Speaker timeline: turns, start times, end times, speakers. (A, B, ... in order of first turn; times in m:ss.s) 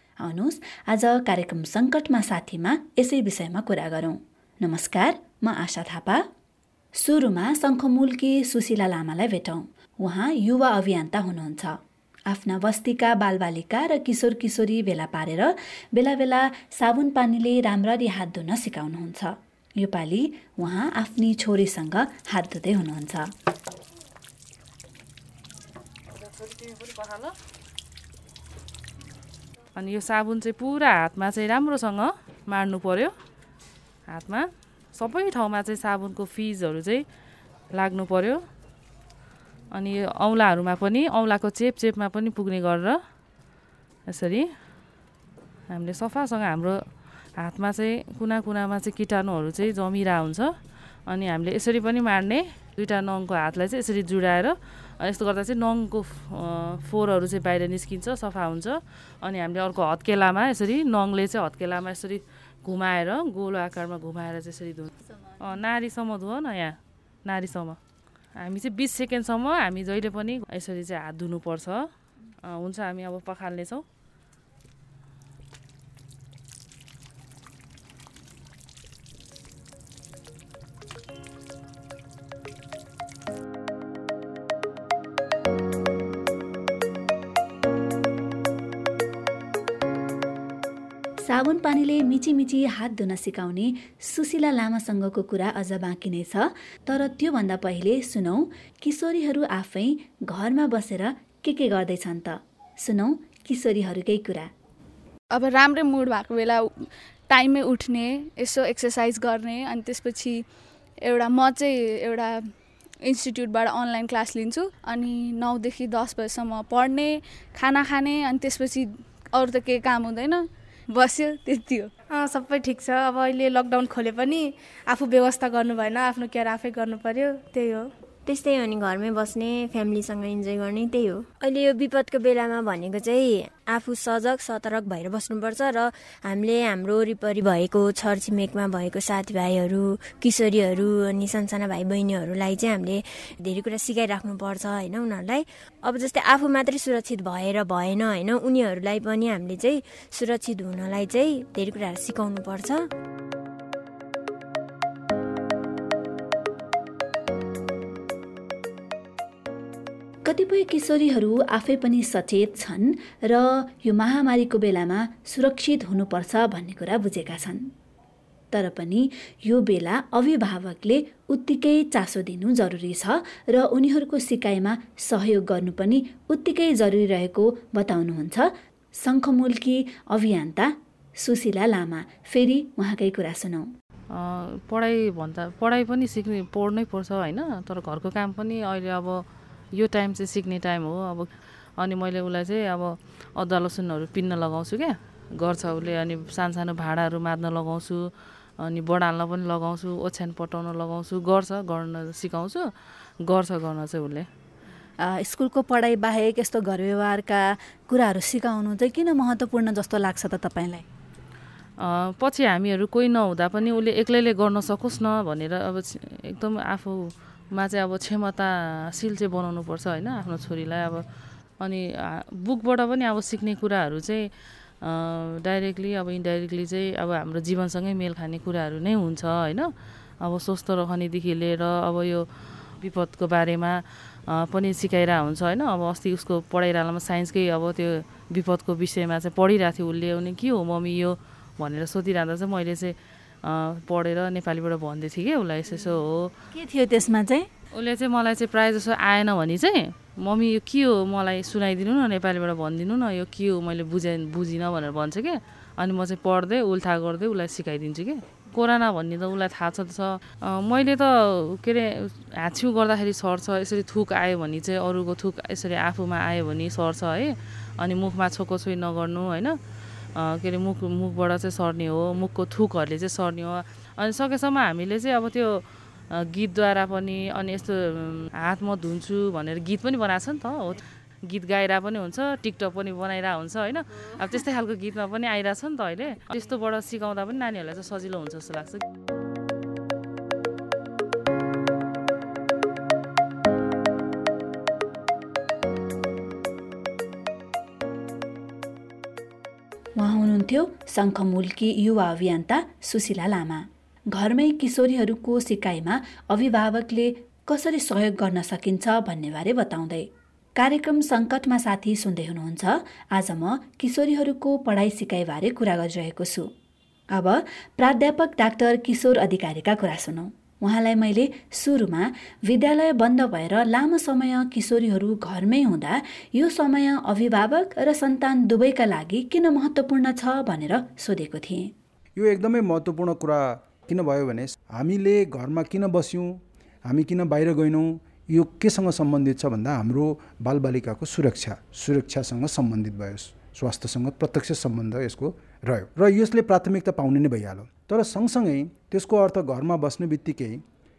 0:00.2-0:06.2 A
0:07.0-0:23.3 A
0:26.1-0:27.3 B
0:29.8-0:33.1 B
0:34.1-0:37.0 B
0:37.7-0:38.4 B
0:39.7-0:43.0 B
0:44.1-0:44.5 B
0:45.7-0:46.8 B
0:47.4-0:50.5 B
0:51.1-1:07.8 B
1:08.4-1:11.9 B
1:12.4-1:13.8 B
1:31.2-1:44.5 A
1:45.3-1:50.4 C
1:51.0-2:01.9 C
2:02.3-2:07.8 D
2:08.3-2:32.9 E
2:40.3-2:47.7 A
2:48.5-3:03.7 A
3:04.1-3:09.2 B
3:09.8-3:18.1 B
3:18.6-3:22.7 B
3:23.2-3:24.3 B
3:25.0-3:30.9 A
3:31.8-3:41.0 B
3:41.6-3:44.2 B
3:44.8-3:49.7 B
3:50.2-3:52.2 B
3:52.8-4:06.3 B
4:06.5-4:07.5 A
4:07.7-4:29.6 B
4:30.2-4:48.8 B
5:00.0-5:16.5 A
5:17.1-5:31.7 A
5:32.2-5:50.6 F